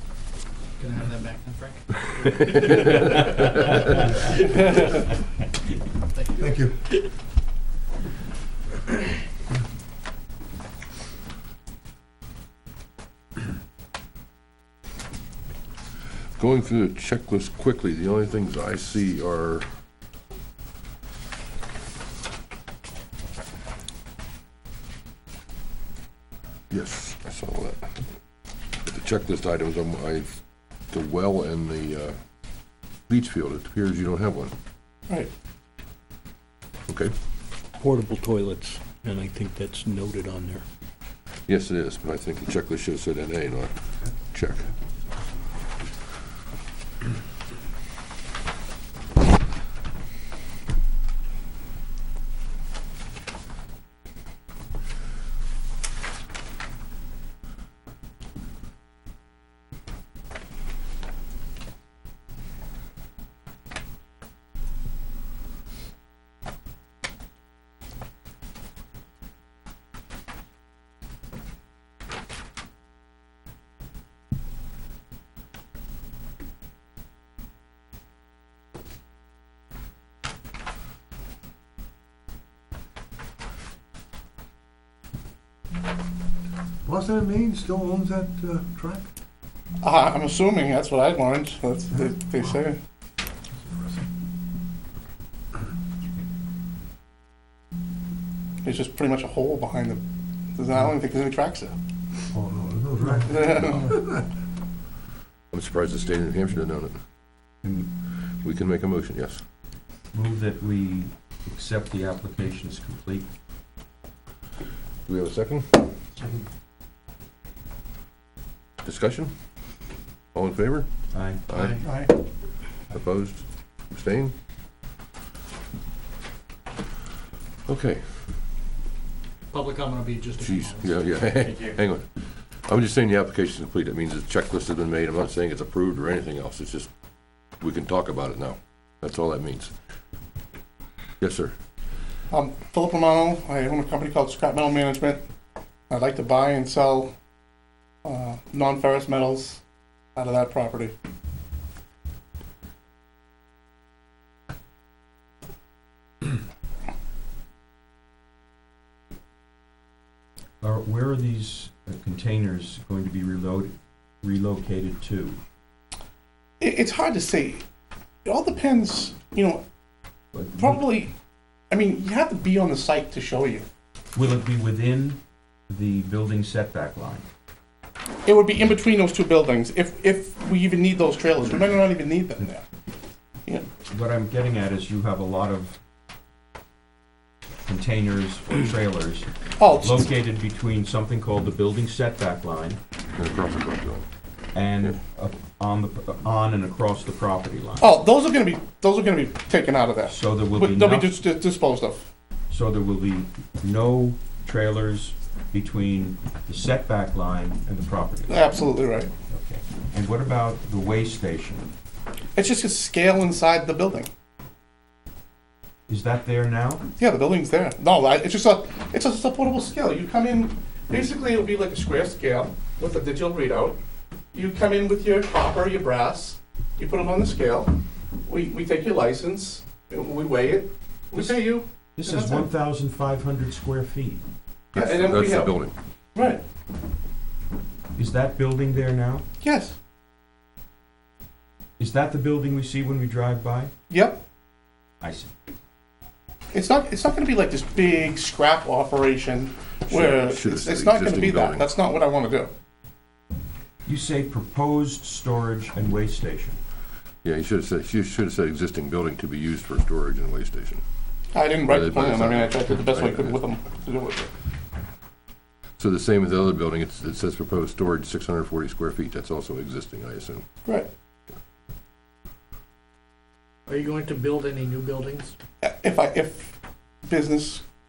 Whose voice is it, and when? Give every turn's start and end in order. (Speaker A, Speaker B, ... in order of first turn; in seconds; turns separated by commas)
Speaker A: 0.8-5.0, Speaker B: 2.2-3.8, Speaker A: 6.1-6.6, Speaker C: 6.4-6.7, Speaker B: 16.4-19.6, Speaker B: 26.7-27.9, Speaker B: 28.9-30.3, Speaker B: 30.9-32.1, Speaker B: 33.1-34.5, Speaker B: 36.9-37.1, Speaker D: 37.8-40.6, Speaker B: 41.5-43.7, Speaker B: 44.3-44.7, Speaker C: 86.8-89.0, Speaker E: 89.8-92.8, Speaker E: 98.6-100.0, Speaker E: 100.5-101.8, Speaker C: 102.3-104.1, Speaker E: 103.2-104.0, Speaker B: 105.5-107.0, Speaker B: 108.4-109.4, Speaker F: 110.1-113.3, Speaker B: 115.1-115.7, Speaker B: 118.8-119.3, Speaker B: 120.3-120.9, Speaker F: 121.1-121.4, Speaker B: 121.5-121.8, Speaker E: 121.6-122.1, Speaker B: 122.9-124.3, Speaker B: 127.7-128.1, Speaker A: 129.5-131.8, Speaker B: 130.4-132.1, Speaker B: 132.7-136.9, Speaker B: 137.6-139.7, Speaker B: 141.2-141.5, Speaker E: 142.3-145.2, Speaker E: 145.9-147.1, Speaker E: 148.0-149.6, Speaker E: 150.2-150.9, Speaker F: 160.6-165.4, Speaker E: 166.6-167.6, Speaker E: 168.2-169.6, Speaker F: 170.3-170.8, Speaker E: 170.6-171.1, Speaker E: 171.7-173.6, Speaker F: 174.1-177.3, Speaker E: 178.2-182.6, Speaker F: 183.8-185.8, Speaker F: 187.6-192.8, Speaker E: 189.6-190.1, Speaker B: 193.2-194.1, Speaker F: 194.5-198.0, Speaker E: 197.8-202.0, Speaker F: 200.1-201.2, Speaker F: 202.5-208.5, Speaker E: 208.3-209.1, Speaker F: 209.3-211.7, Speaker E: 212.3-214.1, Speaker F: 215.9-216.8, Speaker E: 217.0-223.8, Speaker E: 224.3-227.7, Speaker E: 228.2-232.5, Speaker F: 231.1-234.2, Speaker E: 234.7-235.6, Speaker B: 234.7-235.7, Speaker E: 236.1-236.4, Speaker F: 237.9-239.2, Speaker E: 239.4-239.7, Speaker F: 241.8-243.7, Speaker E: 243.9-244.2, Speaker F: 245.0-245.3, Speaker E: 246.5-252.5, Speaker B: 249.9-251.7, Speaker F: 253.8-256.6, Speaker B: 257.2-260.8, Speaker E: 261.3-264.3, Speaker B: 261.6-263.4, Speaker B: 265.8-270.4, Speaker A: 273.7-275.3, Speaker E: 275.6-277.6